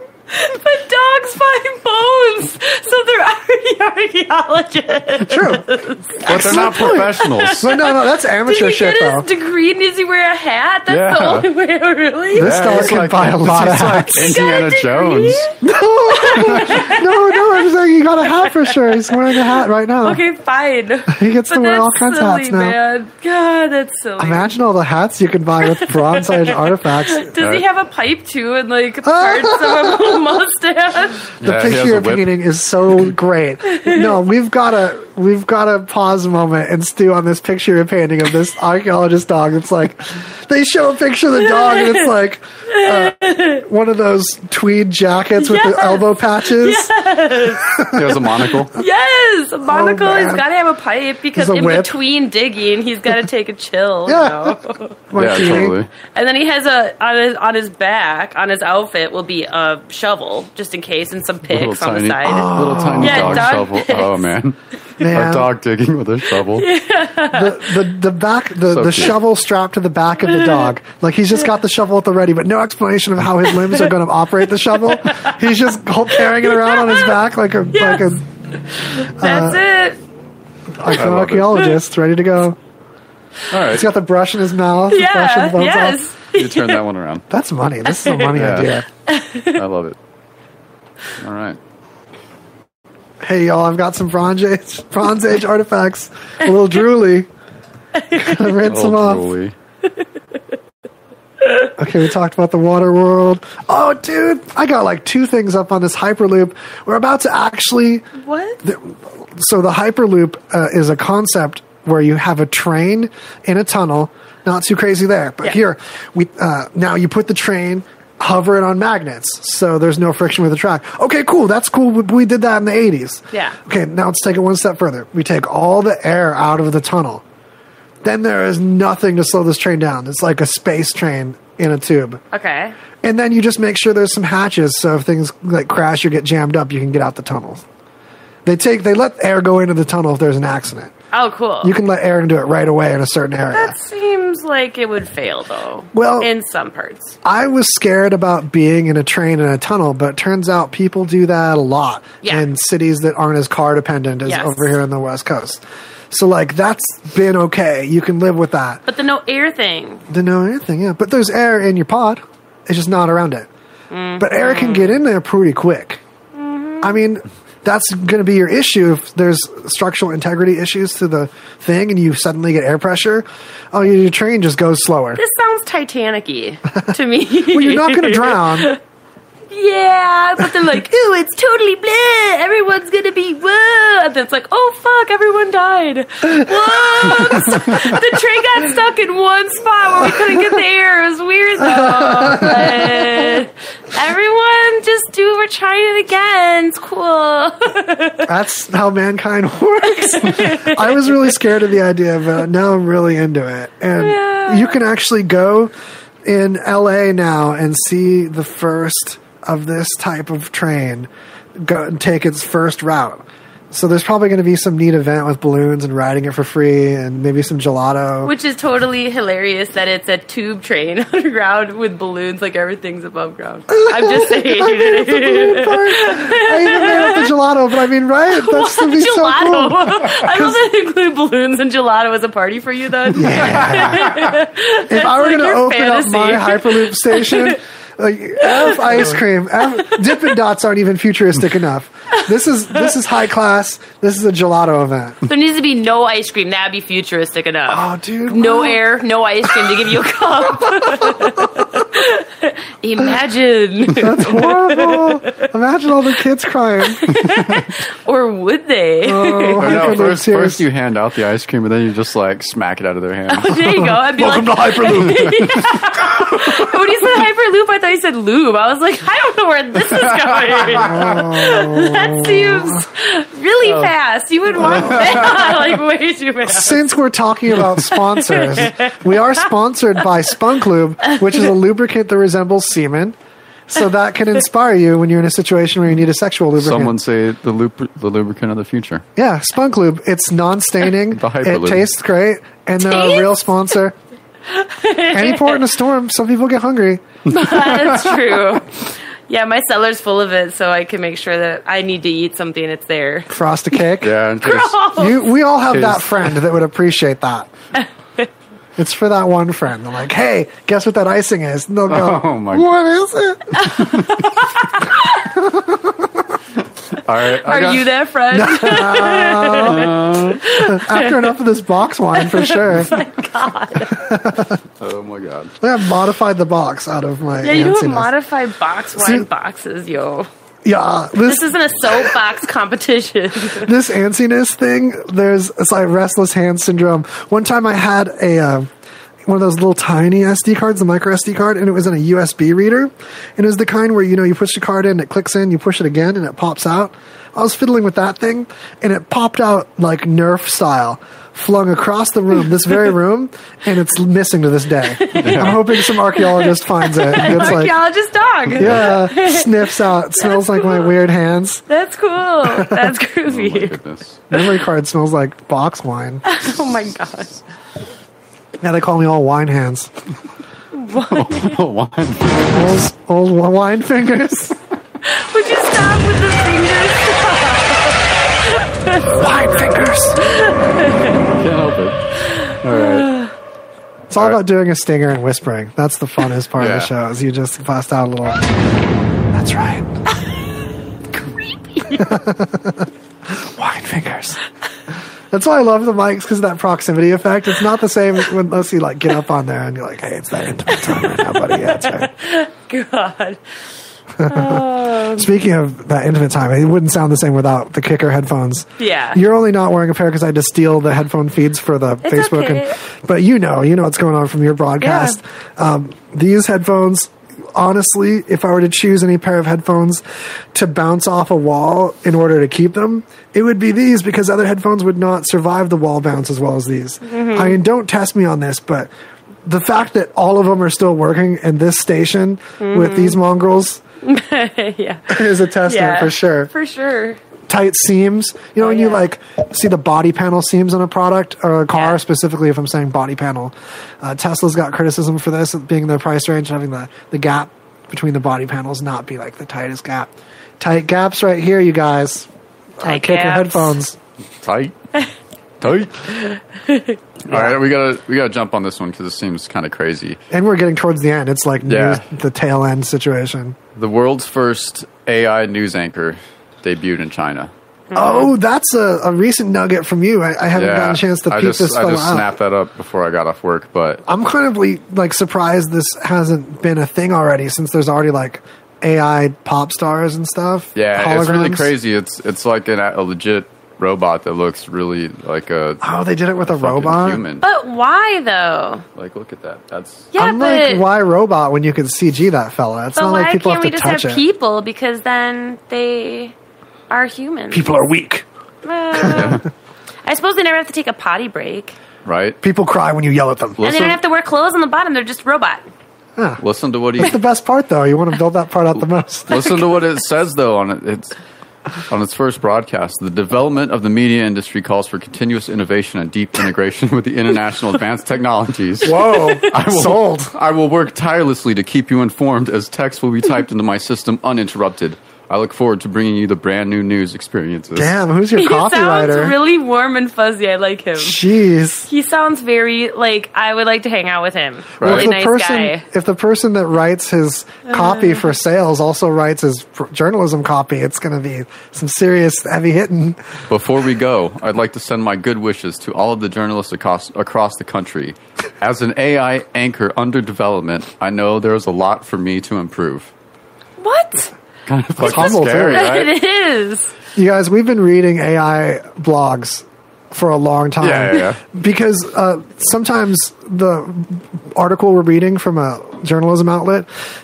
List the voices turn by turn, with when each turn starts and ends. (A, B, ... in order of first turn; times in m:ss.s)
0:00.3-0:13.0 A
0:05.3-0:05.7 B
0:06.2-0:09.3 B
0:06.2-0:07.7 C
0:10.9-0:11.5 C
0:12.3-0:14.3 B
0:12.4-0:15.5 C
0:14.2-0:15.6 A
0:15.6-0:20.2 B
0:16.1-0:17.7 A
0:16.3-0:16.8 C
0:18.2-0:24.5 A
0:21.1-0:22.8 B
0:24.2-0:27.6 B
0:25.6-0:31.3 A
0:29.0-0:30.2 B
0:31.4-0:32.3 C
0:31.4-0:46.9 B
0:33.7-0:34.2 A
0:41.5-0:42.1 A
0:42.7-0:43.6 A
0:45.4-0:47.9 A
0:47.6-0:48.2 B
0:47.9-0:48.8 C
0:48.8-1:04.3 A
0:49.6-0:50.4 B
0:51.3-0:52.0 B
0:54.1-0:55.8 B
0:55.2-0:55.9 C
1:01.5-1:06.7 C
1:02.2-1:03.6 B
1:05.0-1:05.5 B
1:06.4-1:07.8 A
1:07.3-1:18.2 B
1:08.7-1:09.2 C
1:10.3-1:10.7 A
1:13.4-1:13.9 A
1:14.7-1:15.4 A
1:16.2-1:17.2 A
1:17.7-1:20.0 A
1:19.2-1:19.6 B
1:20.8-1:22.6 B
1:20.9-1:21.6 C
1:23.5-1:23.9 C
1:23.7-1:26.0 B
1:24.9-1:26.8 A
1:26.3-1:27.2 C
1:27.3-1:28.9 B
1:27.9-1:28.4 A
1:28.3-1:28.8 C
1:29.1-1:29.6 A
1:29.5-1:30.0 C
1:31.2-1:31.6 C
1:33.2-1:37.3 B
1:38.0-1:38.6 A
1:38.1-1:39.3 B
1:38.6-1:39.6 C
1:41.4-1:41.7 A
1:41.8-1:48.1 B
1:48.2-1:48.6 A
1:48.6-2:07.2 B
2:08.0-2:12.2 B
2:12.3-2:12.8 A
2:13.0-2:17.6 B
2:18.4-2:20.9 B
2:21.1-2:21.8 A
2:21.6-2:23.8 B
2:23.5-2:27.2 A
2:25.9-2:26.3 B
2:27.2-2:38.8 B
2:34.2-2:34.7 A
2:38.9-2:40.0 A
2:40.1-2:43.5 B
2:43.9-2:45.0 A
2:44.2-2:46.0 B
2:46.3-2:47.0 A
2:46.8-2:55.2 B
2:55.2-2:58.8 A
2:57.5-2:58.7 B
2:59.5-3:18.3 A
3:07.1-3:07.6 B
3:07.5-3:07.7 C
3:11.6-3:13.4 B
3:18.2-3:25.7 B
3:19.9-3:21.4 A
3:24.0-3:24.8 A
3:26.2-3:38.3 B
3:38.2-3:47.3 A
3:43.7-3:50.6 B
3:48.3-3:57.6 A
3:53.1-4:05.2 B
3:53.4-3:53.7 C
3:58.4-4:00.3 A
4:05.3-4:15.5 A
4:07.7-4:08.8 B
4:10.6-4:11.7 B
4:13.9-4:17.1 B
4:16.8-4:20.0 A
4:17.1-4:17.7 C
4:19.0-4:20.6 B
4:19.6-4:23.9 C
4:23.3-4:36.9 A
4:23.5-4:25.5 B
4:24.8-4:25.8 C
4:26.1-4:26.8 B
4:29.8-4:31.3 C
4:30.7-4:32.8 B
4:33.6-4:33.9 C
4:34.6-4:35.4 B
4:34.6-4:35.7 C
4:36.4-4:43.2 B
4:37.8-4:39.2 A
4:43.7-4:47.0 B
4:46.6-4:49.0 C
4:49.2-4:54.0 B
4:51.1-4:51.9 C
4:52.8-4:53.5 A
4:54.5-4:55.7 A
4:55.1-4:57.0 B
4:57.3-4:58.2 C
4:57.3-5:03.3 A
5:03.3-5:04.2 B
5:04.0-5:04.8 C
5:04.4-5:05.4 A
5:05.0-5:07.5 B
5:05.7-5:06.3 C
5:07.8-5:08.3 A
5:08.8-5:13.8 B
5:11.9-5:12.7 C
5:13.6-5:15.3 A
5:13.6-5:14.3 C
5:15.2-5:16.3 B
5:16.9-5:17.9 C
5:17.4-5:21.4 A
5:18.3-5:23.0 B
5:19.6-5:20.4 C
5:22.1-5:24.0 A
5:23.9-5:24.6 B
5:24.8-5:25.5 C
5:25.6-5:28.1 B
5:27.4-5:30.3 A
5:29.0-5:29.3 B
5:30.6-5:32.2 B
5:31.2-5:33.7 A
5:33.6-5:38.7 B
5:39.3-5:57.8 B
5:55.0-6:00.9 A
5:55.1-5:55.6 C
5:58.6-5:58.9 C
5:58.6-6:01.6 B
6:01.7-6:03.8 A
6:02.4-6:03.0 B
6:03.3-6:04.2 C
6:04.3-6:06.2 B
6:04.3-6:04.6 A
6:06.2-6:07.4 A
6:08.6-6:09.9 B
6:10.7-6:11.6 A
6:11.0-6:12.5 C
6:12.5-6:14.6 B
6:15.0-6:21.2 A
6:19.0-6:20.3 B
6:21.3-6:23.1 C
6:22.5-6:23.3 A
6:24.1-6:28.4 B
6:26.6-6:26.9 C
6:29.3-6:29.9 B
6:31.4-6:32.1 A
6:31.9-6:34.4 B
6:35.3-6:42.1 B
6:40.7-6:43.4 A
6:44.2-7:00.0 B
6:44.3-6:45.3 A
6:48.8-6:49.2 A
6:52.0-6:52.8 A
6:54.8-6:55.2 A
7:00.5-7:08.9 B
7:07.1-7:07.6 A
7:09.4-7:13.8 B
7:12.6-7:13.2 A
7:14.0-7:17.2 A
7:15.1-7:16.5 B
7:17.5-7:32.3 B
7:18.6-7:19.0 A
7:21.7-7:22.0 A
7:32.8-7:34.0 B
7:32.8-7:33.8 A
7:34.4-7:34.8 C
7:35.6-7:36.1 C
7:36.1-7:37.0 A
7:37.2-7:40.2 C
7:37.3-7:37.6 B
7:40.3-7:43.6 B
7:41.7-7:42.0 C
7:43.8-7:47.5 C
7:47.9-7:48.3 A
7:48.0-7:52.3 B
7:50.6-7:54.0 C
7:54.1-8:01.7 B
8:00.8-8:05.8 C
8:05.8-8:07.2 B
8:06.4-8:07.4 C
8:07.4-8:08.8 A
8:09.0-8:10.1 C
8:10.1-8:10.8 A
8:10.2-8:14.2 B
8:13.0-8:16.3 A
8:16.9-8:17.7 A
8:17.5-8:18.3 B
8:18.6-8:19.4 A
8:19.0-8:19.4 B
8:19.0-8:19.4 C
8:20.0-8:21.8 A
8:22.0-8:22.4 C
8:22.4-8:23.7 B
8:23.6-8:24.0 C
8:23.6-8:25.6 A
8:26.4-8:27.2 C
8:27.0-8:29.6 B
8:29.3-8:31.2 C
8:31.9-8:48.0 C
8:38.8-8:40.3 B
8:39.0-8:39.4 A
8:47.8-8:49.4 B
8:48.4-8:51.2 A
8:51.0-8:51.9 B
8:51.9-8:55.8 A
8:54.8-8:55.1 C
8:54.8-9:03.2 B
8:57.7-8:58.2 A
9:03.5-9:13.1 C
9:13.8-9:14.3 A
9:14.7-9:16.1 C
9:15.0-9:15.9 B
9:15.0-9:16.9 A
9:17.2-9:26.9 B
9:20.8-9:21.4 C